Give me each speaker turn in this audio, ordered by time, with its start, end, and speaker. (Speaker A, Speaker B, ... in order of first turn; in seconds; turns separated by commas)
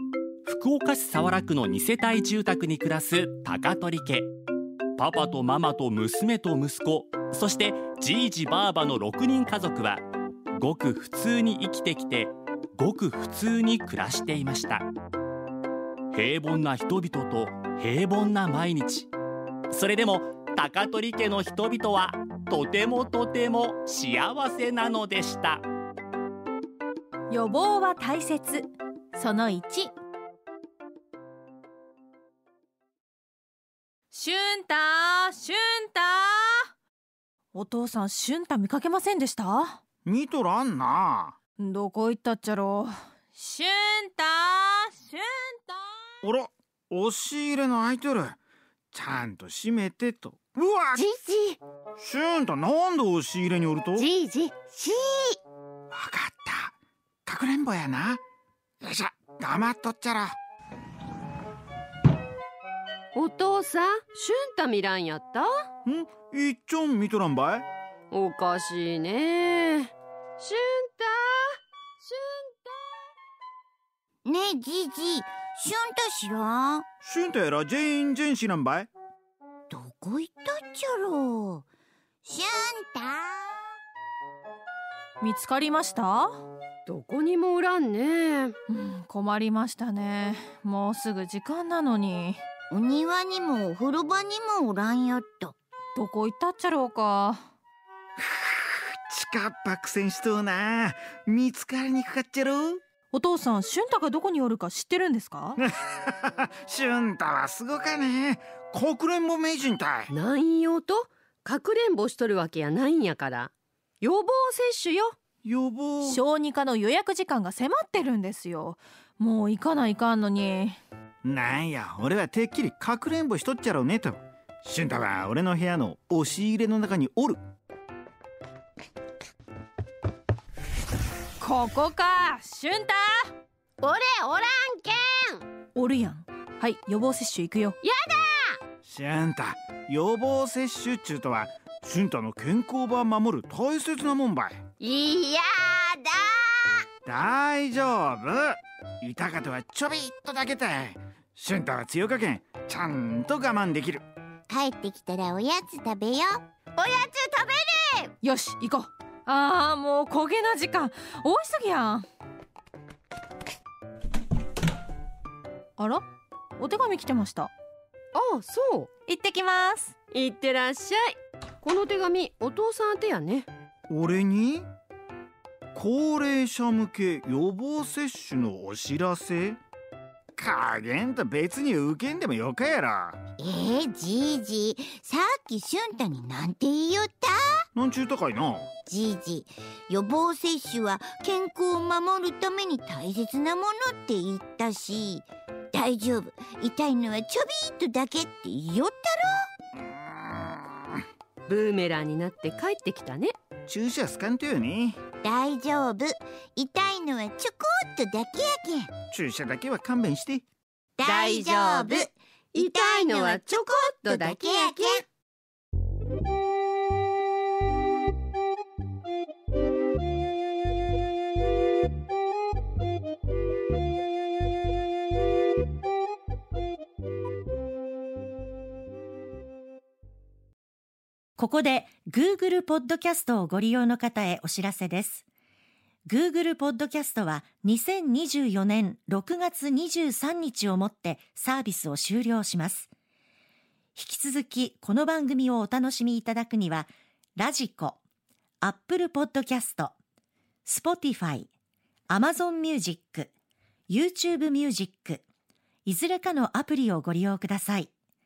Speaker A: 0.5-4.3, Speaker A: 5.0-10.0, Speaker A: 10.6-14.8, Speaker A: 16.1-19.1, Speaker A: 19.7-25.6, Speaker B: 27.3-29.9, Speaker B: 34.1-36.6, Speaker B: 37.5-39.8, Speaker C: 40.0-41.3, Speaker B: 41.6-45.8, Speaker C: 46.2-48.4, Speaker C: 48.9-51.0, Speaker D: 50.9-51.6, Speaker C: 52.0-54.1, Speaker D: 54.0-55.4, Speaker C: 55.9-56.7, Speaker C: 57.2-58.2, Speaker C: 58.8-60.4, Speaker E: 63.1-65.5, Speaker C: 65.8-67.7, Speaker E: 68.1-71.4, Speaker E: 72.0-72.7, Speaker D: 74.2-76.9, Speaker C: 77.0-78.9, Speaker D: 79.7-81.6, Speaker D: 82.2-83.5, Speaker B: 85.2-86.4, Speaker E: 86.8-88.5, Speaker B: 88.7-92.4, Speaker D: 92.7-95.5, Speaker B: 96.0-97.4, Speaker C: 98.2-102.8, Speaker B: 103.1-105.6, Speaker C: 105.6-110.1, Speaker E: 110.1-115.2, Speaker C: 115.4-116.2, Speaker B: 116.0-120.8, Speaker C: 121.2-127.4, Speaker B: 131.4-133.3, Speaker E: 133.8-135.4, Speaker B: 135.7-137.8, Speaker E: 137.8-138.6, Speaker C: 138.8-144.6, Speaker E: 144.8-146.7, Speaker C: 147.1-154.0, Speaker D: 154.5-156.4, Speaker E: 156.8-158.1, Speaker B: 158.2-162.1, Speaker B: 165.8-166.0, Speaker B: 166.6-167.5, Speaker E: 168.1-168.9, Speaker B: 169.1-169.9, Speaker E: 170.1-173.5, Speaker C: 173.9-174.7, Speaker C: 175.7-179.6, Speaker C: 180.4-183.2, Speaker D: 183.4-187.4, Speaker C: 187.7-188.7, Speaker D: 188.9-199.3, Speaker C: 199.8-200.9, Speaker E: 201.5-203.3, Speaker C: 203.7-205.0, Speaker D: 205.2-208.9, Speaker C: 209.1-210.4, Speaker D: 211.0-215.0, Speaker E: 211.0-215.0, Speaker F: 231.4-235.2, Speaker F: 236.1-242.9, Speaker F: 243.9-248.0, Speaker F: 248.6-249.9, Speaker F: 250.7-251.5, Speaker F: 252.1-253.3, Speaker F: 253.9-255.2, Speaker F: 255.8-257.9